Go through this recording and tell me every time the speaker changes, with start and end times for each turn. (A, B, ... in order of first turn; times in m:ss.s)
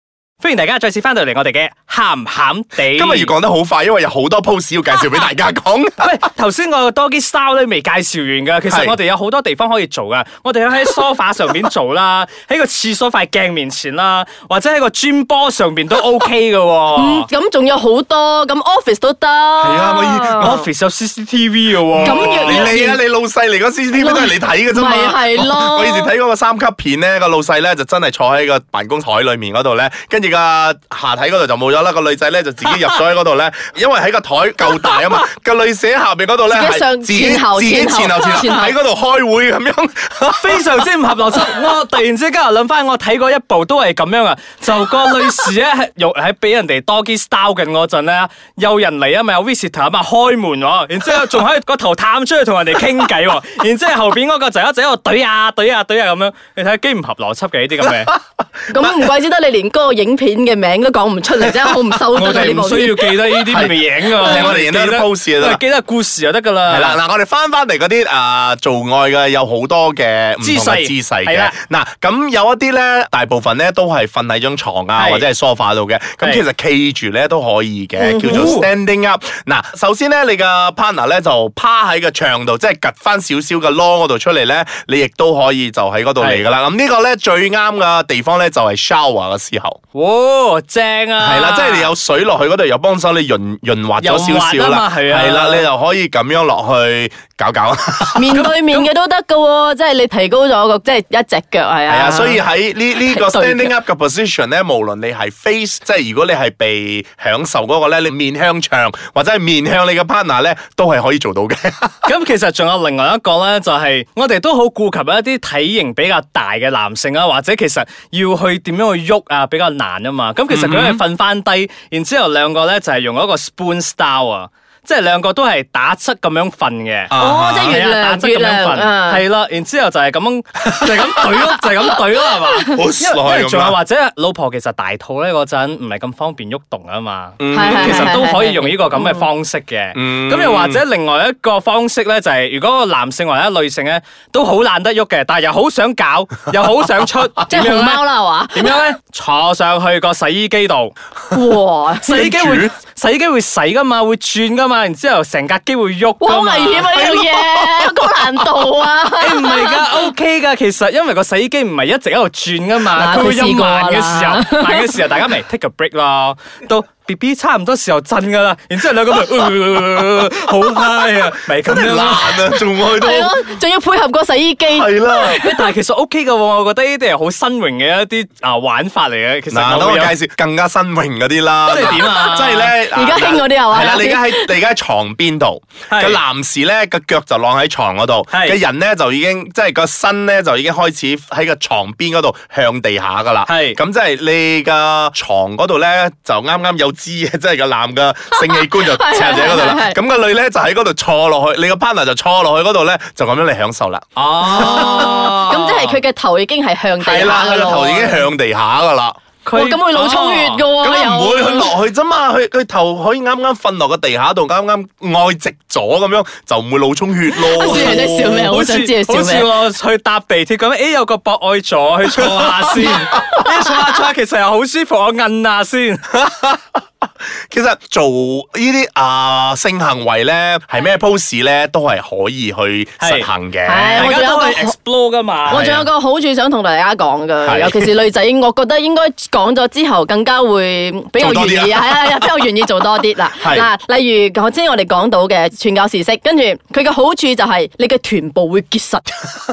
0:00.4-0:03.3 A
0:02.9-0:06.1 B
0:06.0-0:17.3 A
0:08.7-0:09.0 B
0:16.9-0:20.6 C
0:19.6-0:20.7 B
0:20.4-0:22.8 A
0:22.0-0:40.7 B
0:22.0-0:23.0 C
0:23.9-0:26.1 C
0:36.5-0:38.7 C
0:40.3-0:58.1 A
0:58.7-1:03.2 C
1:02.1-1:07.0 A
1:03.4-1:05.6 B
1:06.7-1:29.8 B
1:10.4-1:11.6 A
1:15.0-1:15.2 A
1:18.0-1:18.6 C
1:18.3-1:18.7 A
1:29.9-1:31.9 A
1:31.2-1:38.4 B
1:34.0-1:35.6 A
1:38.2-1:42.4 C
1:38.3-1:38.9 A
1:41.9-1:51.9 B
1:42.9-1:43.7 C
1:52.0-2:30.9 A
2:00.5-2:01.0 B
2:07.1-2:07.8 B
2:07.2-2:09.2 C
2:12.7-2:13.8 B
2:17.4-2:18.2 B
2:17.5-2:19.3 C
2:19.9-2:20.8 B
2:27.5-2:28.8 C
2:31.3-2:32.2 C
2:32.0-2:37.1 A
2:32.1-2:32.7 B
2:36.2-2:39.8 C
2:36.9-2:38.1 B
2:39.2-2:52.6 A
2:42.9-2:45.0 C
2:51.6-2:53.4 B
2:52.8-2:55.7 C
2:54.7-2:55.4 B
2:55.2-3:00.2 A
2:59.5-3:25.5 B
3:01.6-3:02.8 A
3:01.8-3:04.5 C
3:05.9-3:06.2 A
3:08.3-3:08.6 A
3:13.5-3:13.8 A
3:18.3-3:20.0 C
3:24.2-3:26.0 A
3:24.6-3:28.2 C
3:27.0-3:29.2 B
3:29.4-3:30.6 A
3:29.5-3:31.7 C
3:30.8-3:38.5 B
3:37.4-3:39.5 C
3:37.6-3:46.0 A
3:42.2-3:42.9 B
3:46.1-3:46.8 B
3:47.5-3:54.1 B
3:53.0-3:53.3 A
3:53.6-3:54.7 C
3:53.9-3:55.7 A
3:55.5-3:55.9 B
3:55.5-4:09.2 C
3:57.4-3:57.9 B
4:01.2-4:02.5 B
4:03.4-4:03.7 B